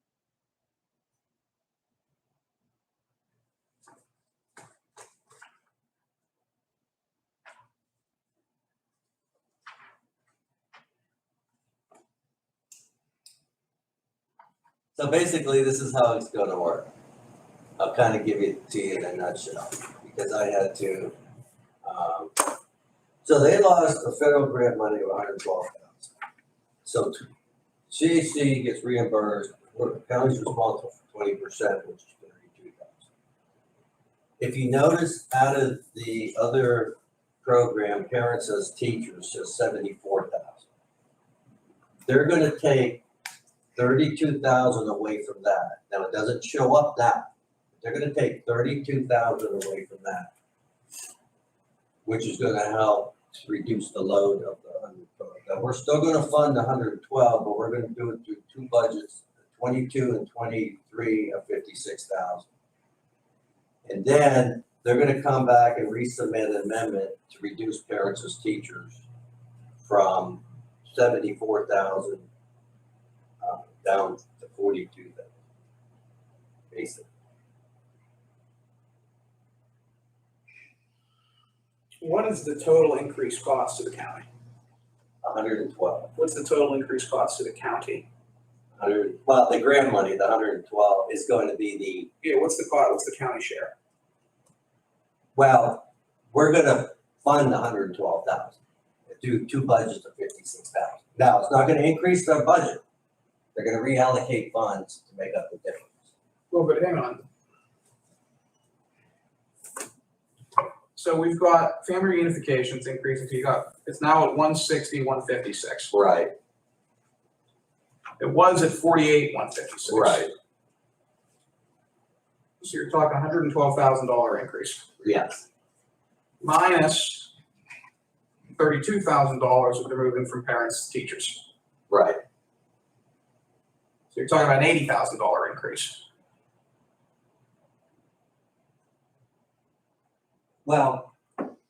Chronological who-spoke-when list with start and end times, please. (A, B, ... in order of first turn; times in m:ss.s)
0:15.0-0:16.9 A
0:17.8-0:21.1 A
0:21.8-0:22.6 A
0:23.2-0:26.1 A
0:26.8-0:27.3 A
0:27.9-0:33.1 A
0:34.4-0:40.6 A
0:42.1-0:43.0 A
0:43.8-0:47.3 A
0:47.8-0:50.3 A
0:52.1-1:02.5 A
1:03.9-1:09.0 A
1:09.8-1:12.2 A
1:13.4-1:15.3 A
1:16.7-1:17.1 A
1:22.0-1:24.3 B
1:25.2-1:26.1 A
1:26.2-1:28.1 B
1:28.8-1:32.1 A
1:32.2-1:33.7 B
1:35.4-1:38.6 A
1:39.1-1:42.8 A
1:43.6-1:46.1 A
1:46.5-1:47.2 B
1:50.9-1:56.0 B
1:55.9-1:56.3 A
1:58.2-2:00.2 B
1:59.9-2:00.3 A
2:02.6-2:04.9 B
2:05.0-2:05.4 A
2:06.4-2:07.3 B
2:08.6-2:11.5 B
2:11.9-2:12.2 A
2:14.1-2:16.0 B
2:20.6-2:21.1 A